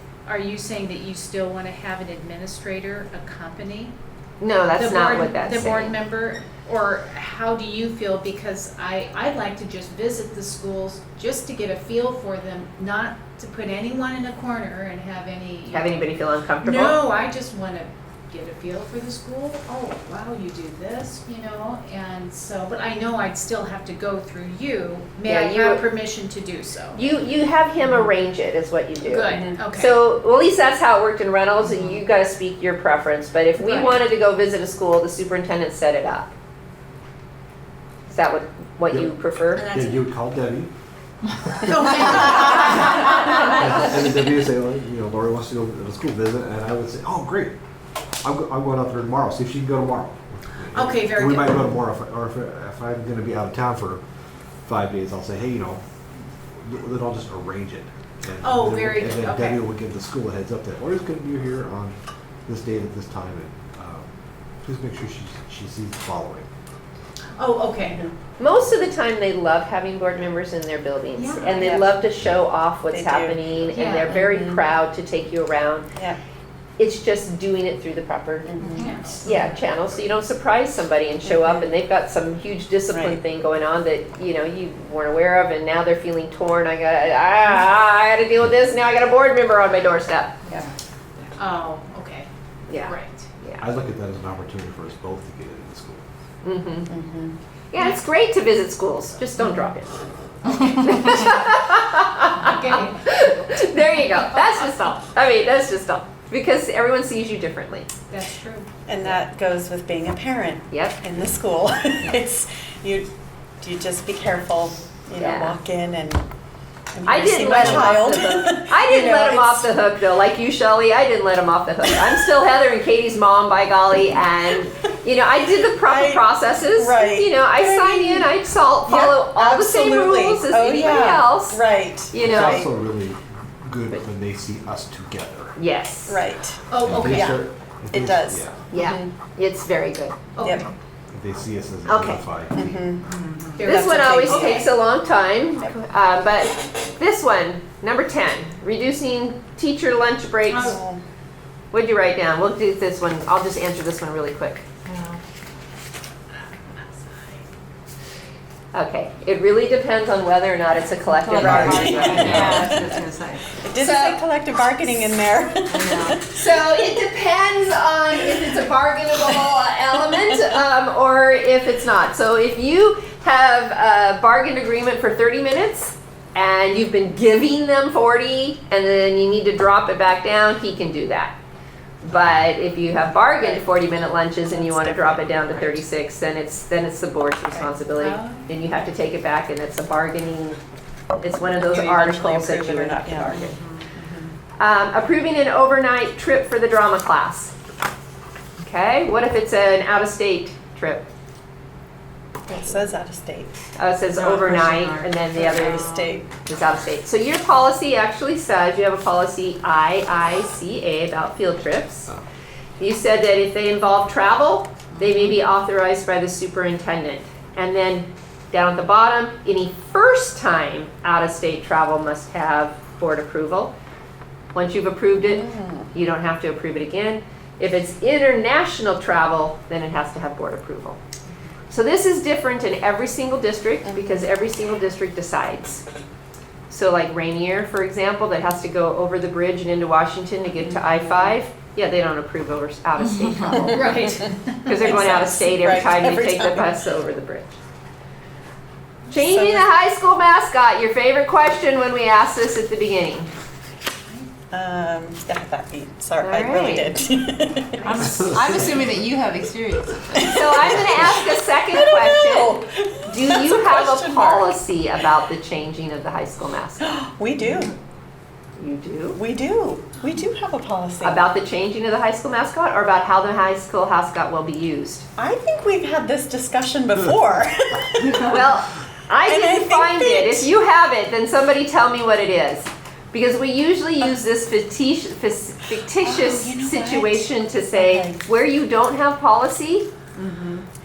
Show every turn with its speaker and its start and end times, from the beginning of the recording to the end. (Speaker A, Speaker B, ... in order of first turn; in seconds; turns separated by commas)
Speaker A: 0.2-3.9, Speaker B: 4.4-6.0, Speaker A: 4.7-16.1, Speaker B: 15.7-17.0, Speaker A: 16.6-27.0, Speaker B: 25.2-25.8, Speaker B: 26.9-36.3, Speaker A: 29.0-30.0, Speaker A: 33.6-34.0, Speaker B: 38.1-39.7, Speaker C: 38.9-40.7, Speaker A: 41.6-43.8, Speaker C: 42.0-47.5, Speaker C: 48.2-54.0, Speaker A: 50.7-51.8, Speaker C: 54.6-55.8, Speaker C: 56.6-64.1, Speaker A: 58.4-59.6, Speaker C: 64.6-66.5, Speaker A: 67.4-68.0, Speaker D: 67.8-68.1, Speaker B: 68.4-75.9, Speaker A: 71.2-71.7, Speaker D: 71.5-72.0, Speaker D: 72.9-73.4, Speaker A: 73.7-74.1, Speaker D: 74.0-74.6, Speaker B: 76.8-90.6, Speaker D: 78.5-79.0, Speaker A: 78.6-79.7, Speaker D: 81.2-81.7, Speaker D: 82.9-83.2, Speaker A: 91.3-92.3, Speaker B: 92.7-93.6, Speaker A: 92.8-93.3, Speaker C: 93.6-96.0, Speaker B: 96.4-96.9, Speaker D: 96.9-97.3, Speaker B: 97.7-100.0, Speaker A: 100.4-101.3, Speaker B: 100.6-107.9, Speaker A: 102.3-104.8, Speaker A: 108.1-108.7, Speaker D: 108.9-113.1, Speaker B: 110.7-111.0, Speaker D: 113.6-116.2, Speaker B: 115.1-115.6, Speaker D: 116.9-119.7, Speaker B: 117.0-132.6, Speaker C: 117.6-117.9, Speaker D: 121.8-122.2, Speaker D: 125.8-132.7, Speaker C: 132.2-135.6, Speaker B: 135.6-136.3, Speaker D: 136.1-139.1, Speaker A: 136.7-137.4, Speaker C: 136.8-138.7, Speaker B: 138.7-140.3, Speaker A: 140.4-140.7, Speaker D: 140.4-140.7, Speaker C: 141.1-142.8, Speaker B: 141.8-142.2, Speaker D: 142.5-143.1, Speaker E: 143.2-143.5, Speaker A: 143.5-144.6, Speaker D: 143.6-144.7, Speaker B: 143.6-150.8, Speaker A: 150.5-150.8, Speaker D: 150.5-151.0, Speaker B: 151.7-154.6, Speaker E: 154.8-155.2, Speaker B: 158.7-162.8, Speaker E: 161.2-163.6, Speaker D: 161.4-163.0, Speaker D: 163.6-166.3, Speaker B: 163.8-164.2, Speaker E: 165.7-166.2, Speaker B: 166.2-181.3, Speaker B: 182.0-190.6, Speaker D: 184.5-185.8, Speaker A: 187.9-188.4, Speaker B: 191.2-193.5, Speaker D: 191.7-194.3, Speaker B: 194.6-197.5, Speaker B: 198.6-201.1, Speaker D: 202.5-203.5, Speaker B: 203.8-212.1, Speaker E: 204.1-206.2, Speaker D: 205.3-206.2, Speaker B: 212.8-223.7, Speaker E: 215.0-215.3, Speaker B: 224.5-231.0, Speaker D: 225.2-225.9, Speaker B: 231.7-235.8, Speaker D: 233.8-234.3, Speaker B: 236.7-247.6, Speaker D: 240.6-241.4, Speaker A: 243.5-245.3, Speaker D: 244.9-246.8, Speaker B: 249.1-253.3, Speaker D: 249.1-249.7, Speaker D: 254.5-258.0, Speaker B: 256.2-257.0, Speaker A: 257.8-258.7, Speaker E: 257.8-261.0, Speaker B: 260.2-267.0, Speaker D: 261.7-264.5, Speaker D: 266.8-267.7, Speaker B: 268.6-269.2, Speaker D: 269.1-271.2, Speaker B: 271.0-275.1, Speaker D: 275.2-278.4, Speaker B: 278.1-289.9, Speaker D: 279.2-280.5, Speaker D: 286.0-288.2, Speaker E: 290.2-290.6